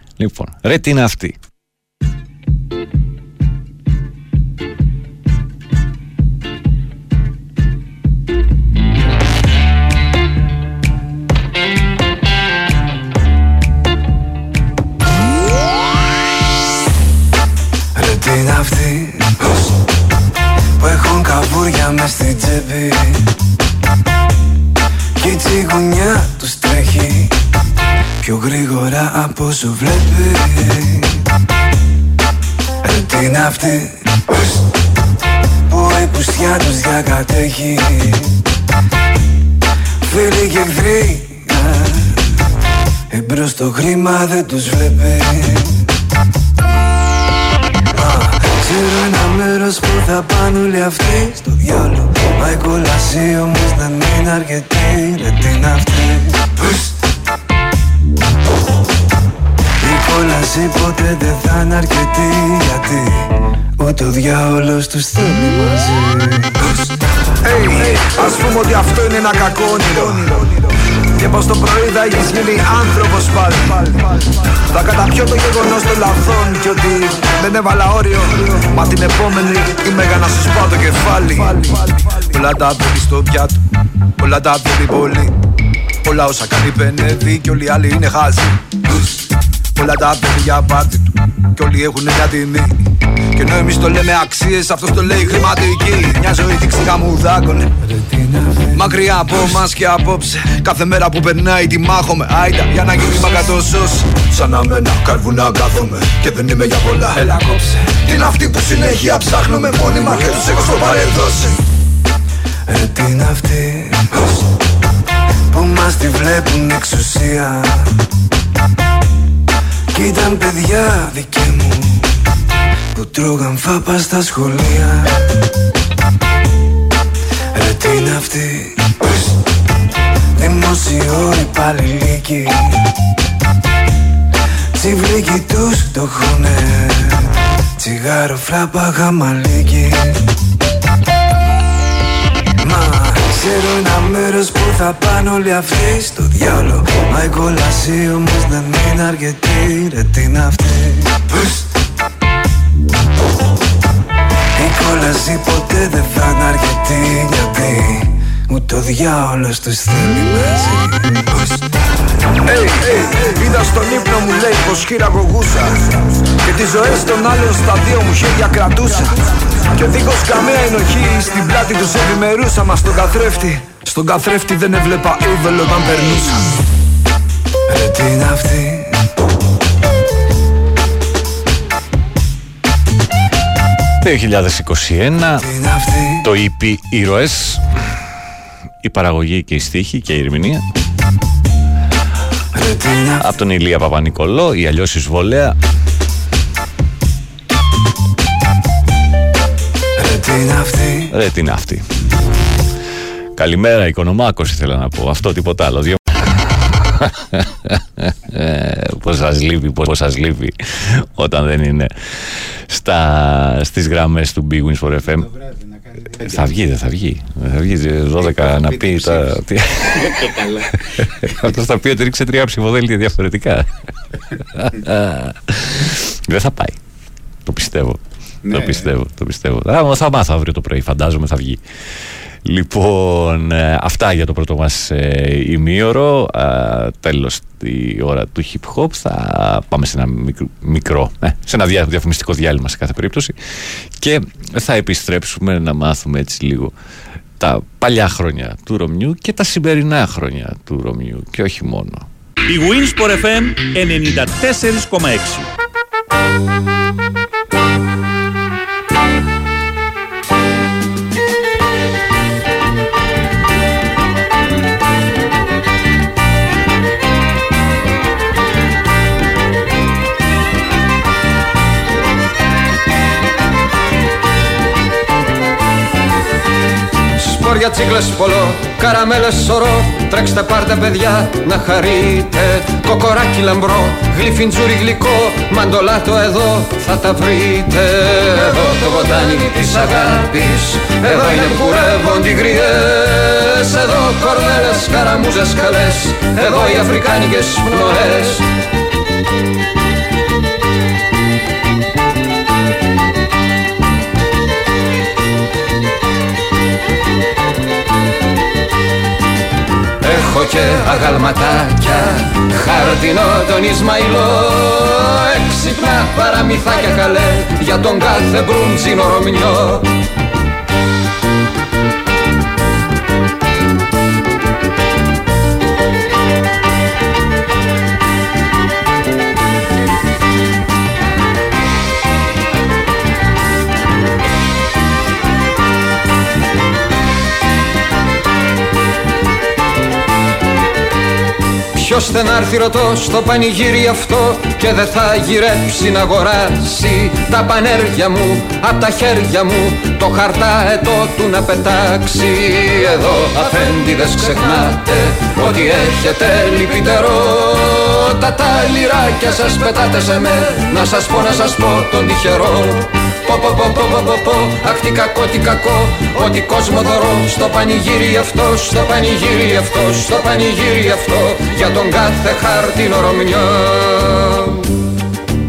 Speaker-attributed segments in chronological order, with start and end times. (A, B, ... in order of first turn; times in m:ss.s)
0:00.2-0:01.4 A
0:18.0-0:19.7 B
0:20.8-0:23.3 B
0:25.2-0:27.3 B
0:28.2-0:31.2 B
0:32.8-0:34.6 B
0:35.7-0:38.4 B
0:40.0-0:42.2 B
0:43.1-0:45.9 B
0:47.9-0:56.9 B
0:59.8-1:06.6 B
1:07.4-1:10.6 C
1:11.2-1:23.6 C
1:24.2-1:25.3 C
1:26.0-1:28.6 C
1:29.8-1:32.8 C
1:33.4-1:37.7 C
1:37.9-1:38.8 B
1:38.8-1:51.6 C
1:52.7-1:54.4 B
1:55.5-1:57.9 B
1:59.9-2:02.1 B
2:02.9-2:05.1 B
2:07.6-2:09.3 B
2:10.4-2:12.8 B
2:14.8-2:20.2 B
2:22.6-2:31.6 B
2:34.6-2:41.3 B
2:42.4-2:45.8 C
2:46.4-2:56.5 C
2:57.7-2:59.0 B
3:04.0-3:05.5 A
3:05.4-3:06.3 B
3:06.2-3:07.6 A
3:08.8-3:10.6 A
3:12.5-3:13.4 B
3:13.2-3:15.6 A
3:20.0-3:21.1 B
3:21.1-3:21.8 A
3:23.4-3:26.2 A
3:26.8-3:31.9 A
3:32.7-3:35.3 A
3:36.2-3:40.4 A
3:41.0-3:43.7 A
3:44.6-3:46.8 A
3:47.5-3:51.6 A
3:52.4-4:03.3 A
4:04.0-4:06.7 A
4:07.4-4:12.1 A
4:12.5-4:15.5 D
4:37.2-4:58.4 E
5:10.0-5:19.9 E
5:41.8-6:14.7 E